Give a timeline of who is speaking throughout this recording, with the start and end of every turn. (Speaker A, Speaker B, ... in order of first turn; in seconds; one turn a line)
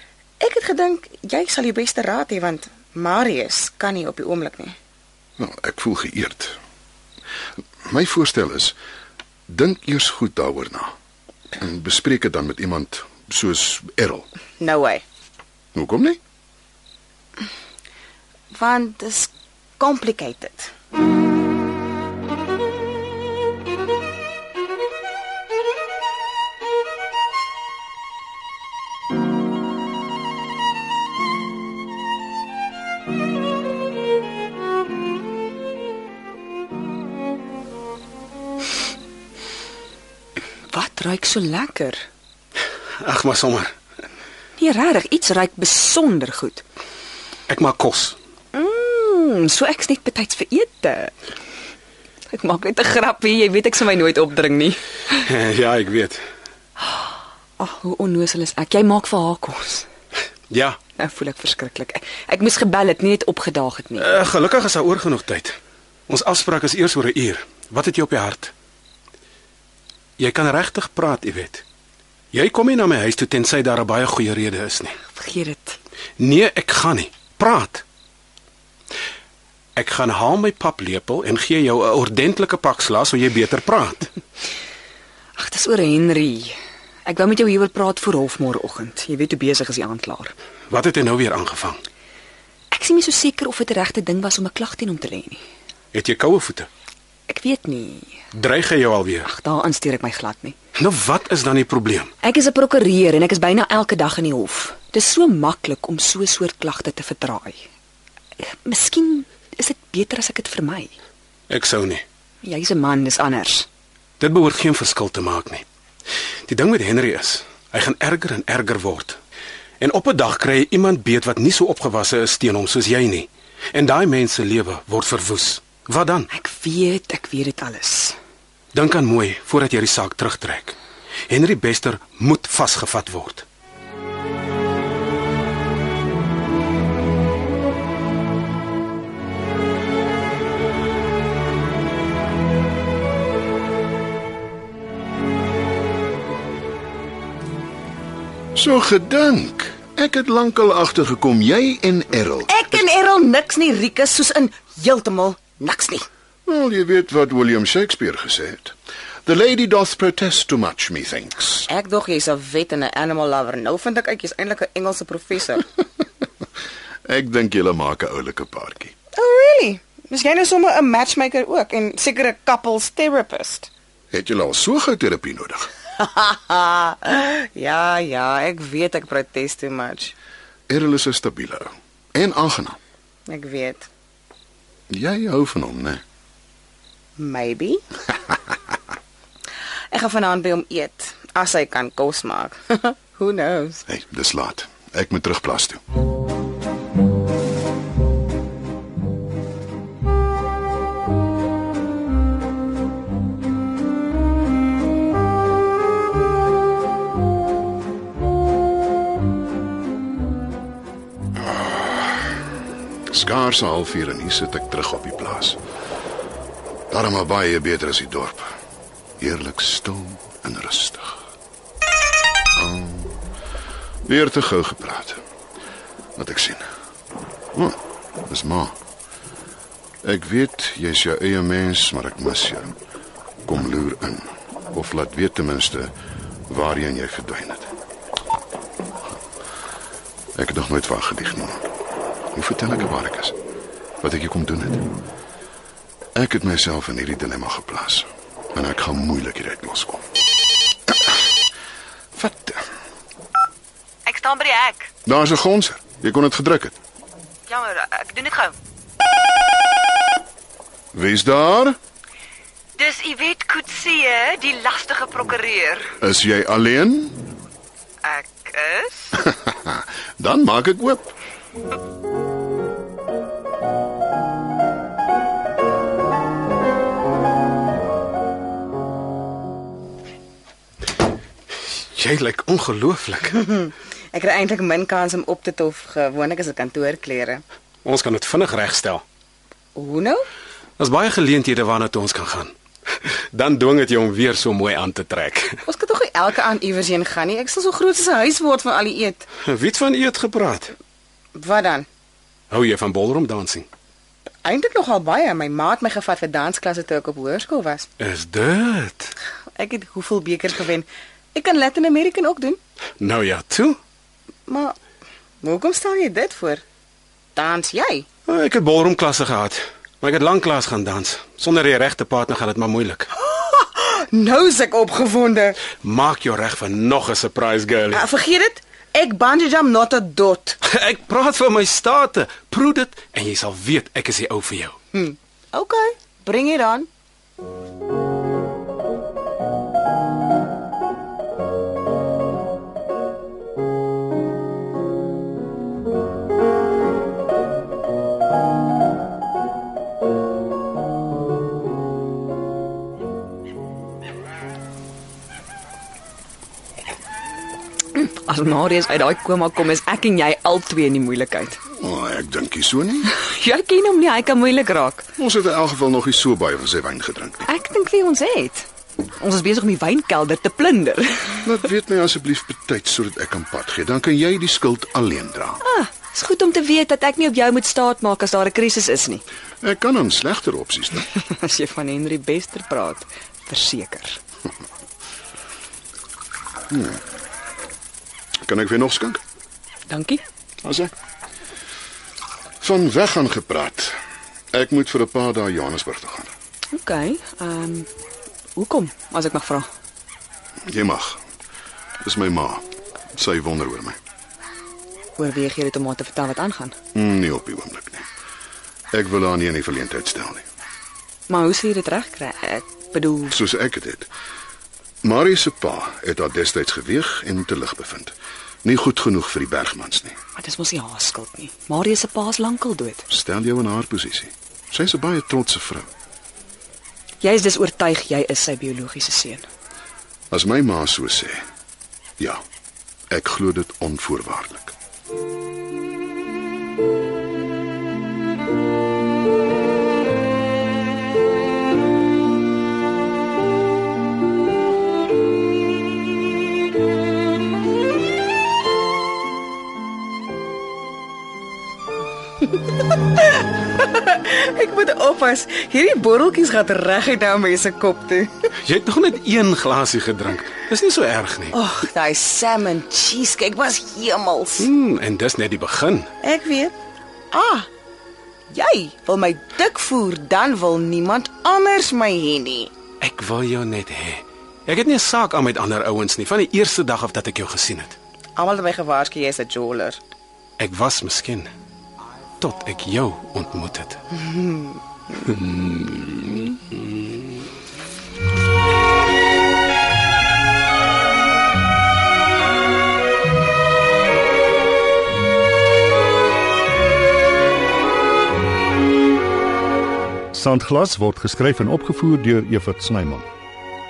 Speaker A: 0.4-4.7
Speaker B: 5.4-6.5
Speaker B: 7.8-8.7
Speaker B: 9.5-10.9
Speaker B: 11.6-14.3
Speaker A: 14.6-15.0
Speaker B: 15.7-16.2
Speaker A: 18.5-20.7
Speaker C: 40.7-42.0
Speaker D: 43.0-43.7
Speaker C: 44.6-46.6
Speaker D: 47.5-48.2
Speaker C: 48.5-51.1
Speaker C: 52.3-54.8
Speaker D: 55.1-56.2
Speaker C: 56.8-59.9
Speaker D: 60.5-60.8
Speaker C: 61.0-64.2
Speaker D: 64.0-65.6
Speaker D: 66.1-68.5
Speaker D: 70.2-71.6
Speaker D: 72.3-75.0
Speaker C: 75.1-75.8
Speaker D: 76.2-77.8
Speaker D: 79.8-84.1
Speaker C: 85.3-86.5
Speaker C: 87.0-90.3
Speaker D: 90.7-91.8
Speaker C: 92.7-95.4
Speaker D: 95.9-96.7
Speaker C: 97.3-98.2
Speaker D: 98.3-99.3
Speaker C: 99.2-100.5
Speaker D: 100.8-102.1
Speaker C: 102.2-107.6
Speaker C: 108.4-111.0
Speaker D: 111.5-112.0
Speaker C: 112.4-113.7
Speaker D: 114.2-115.6
Speaker D: 116.5-119.2
Speaker D: 119.8-126.3
Speaker C: 126.3-128.2
Speaker D: 128.7-130.8
Speaker D: 131.3-133.4
Speaker B: 148.6-152.7
Speaker A: 152.5-156.1
Speaker B: 156.4-161.7
Speaker A: 161.7-165.7
Speaker B: 167.1-168.9
Speaker A: 169.2-173.7
Speaker B: 174.1-175.7
Speaker A: 176.0-180.1
Speaker B: 180.7-182.8
Speaker A: 183.3-183.9
Speaker B: 184.9-186.0
Speaker A: 187.2-187.8
Speaker A: 189.9-193.8
Speaker B: 193.9-195.8
Speaker B: 213.1-215.6
Speaker B: 216.9-218.5
Speaker B: 219.2-221.2
Speaker B: 222.5-223.2
Speaker B: 224.0-225.2
Speaker B: 226.2-226.7
Speaker B: 227.5-228.8
Speaker B: 230.0-232.7
Speaker B: 233.4-235.9
Speaker B: 236.5-237.7
Speaker B: 240.3-241.6
Speaker B: 242.3-243.3
Speaker B: 244.0-244.9
Speaker B: 246.1-250.0
Speaker B: 252.2-252.6
Speaker C: 254.1-254.9
Speaker B: 255.0-256.7
Speaker C: 257.5-258.5
Speaker B: 260.9-261.8
Speaker C: 262.8-265.9
Speaker B: 266.0-267.2
Speaker C: 268.0-269.1
Speaker B: 269.1-271.1
Speaker D: 281.6-283.4
Speaker A: 283.3-287.4
Speaker D: 287.8-289.0
Speaker A: 289.7-290.2
Speaker D: 290.8-295.6
Speaker A: 295.6-299.2
Speaker D: 299.4-300.7
Speaker A: 301.3-301.9
Speaker D: 302.5-303.7
Speaker A: 304.4-307.9
Speaker D: 308.0-309.1
Speaker A: 309.5-312.6
Speaker D: 313.0-313.8
Speaker A: 314.5-314.8
Speaker A: 315.4-316.6
Speaker A: 317.3-318.1
Speaker D: 318.3-323.1
Speaker A: 323.1-325.6
Speaker D: 325.8-328.1
Speaker A: 327.9-330.6
Speaker D: 330.6-334.8
Speaker A: 334.9-336.9
Speaker C: 357.9-361.6
Speaker B: 361.8-363.1
Speaker C: 363.1-365.1
Speaker B: 365.2-367.5
Speaker C: 367.4-368.7
Speaker C: 369.2-371.4
Speaker B: 371.4-375.6
Speaker C: 375.6-379.2
Speaker B: 379.6-381.1
Speaker C: 381.2-384.2
Speaker B: 386.7-387.0
Speaker B: 388.4-389.2
Speaker C: 389.9-390.2
Speaker B: 390.6-390.9
Speaker B: 392.6-393.9
Speaker B: 394.5-396.3
Speaker C: 396.7-397.9
Speaker C: 398.5-399.7
Speaker B: 400.6-401.2
Speaker B: 402.0-404.0
Speaker C: 405.2-406.8
Speaker B: 406.9-408.0
Speaker B: 408.9-410.4
Speaker C: 411.3-413.4
Speaker B: 413.3-414.1
Speaker B: 415.0-420.1
Speaker C: 420.4-423.1
Speaker B: 423.1-425.9
Speaker C: 427.2-429.4
Speaker B: 430.3-431.4
Speaker B: 433.1-434.7
Speaker A: 453.1-458.3
Speaker D: 458.6-461.6
Speaker A: 461.5-464.7
Speaker D: 464.6-466.1
Speaker A: 466.2-466.7
Speaker A: 467.3-467.7
Speaker A: 468.5-472.7
Speaker D: 473.0-478.0
Speaker A: 478.4-480.0
Speaker D: 480.6-481.5
Speaker D: 482.4-484.0
Speaker A: 484.1-484.8
Speaker D: 485.2-487.2
Speaker E: 500.3-503.3